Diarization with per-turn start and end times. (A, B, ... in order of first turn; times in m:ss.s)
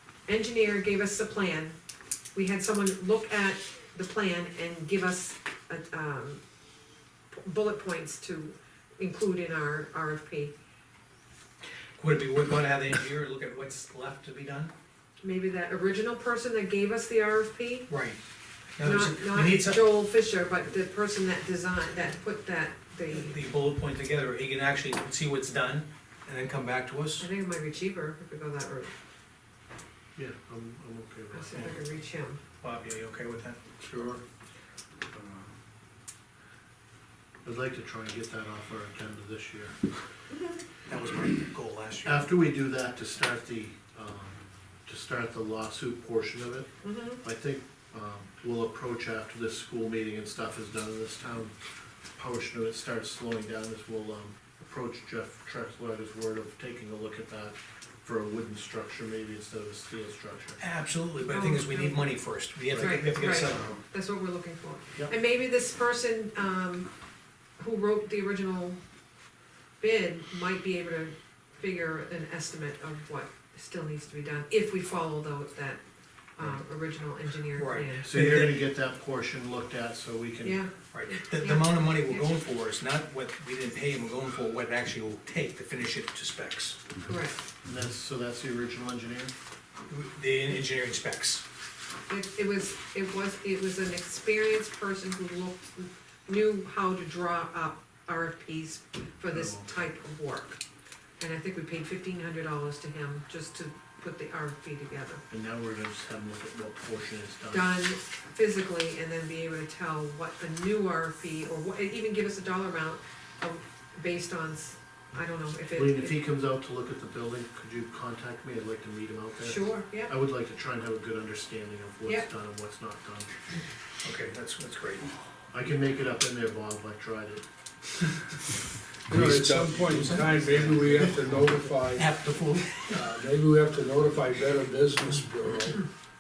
0:00.3-0:01.8 A
0:02.4-0:06.4 A
0:07.3-0:10.5 A
0:12.0-0:14.7 B
0:15.2-0:17.9 A
0:17.9-0:18.2 B
0:18.8-0:20.0 B
0:18.8-0:23.4 A
0:23.1-0:27.3 B
0:27.2-0:28.9 A
0:30.2-0:31.7 C
0:31.3-0:32.4 A
0:32.6-0:33.6 B
0:33.8-0:34.2 D
0:35.1-0:35.5 D
0:37.4-0:39.8 C
0:40.9-0:42.3 B
0:42.0-0:51.5 C
0:46.8-0:47.2 A
0:52.2-1:00.6 C
1:00.6-1:03.8 B
1:01.3-1:02.1 A
1:02.7-1:03.8 C
1:02.8-1:06.9 A
1:07.6-1:08.8 A
1:09.8-1:15.8 A
1:16.4-1:18.1 A
1:17.6-1:18.6 B
1:18.0-1:20.6 C
1:20.4-1:22.3 A
1:20.9-1:26.8 B
1:27.0-1:27.4 A
1:27.6-1:29.3 C
1:29.9-1:31.4 B
1:32.1-1:40.6 A
1:39.3-1:39.7 C
1:41.2-1:45.2 A
1:45.3-1:47.8 C
1:47.5-1:56.2 A
1:55.7-2:03.3 C
1:59.4-2:00.1 A
2:04.0-2:05.1 B
2:05.5-2:07.4 C
2:09.1-2:12.2 D
2:09.1-2:11.4 C
2:10.6-2:11.1 B
2:11.9-2:13.1 B
2:12.8-2:15.9 D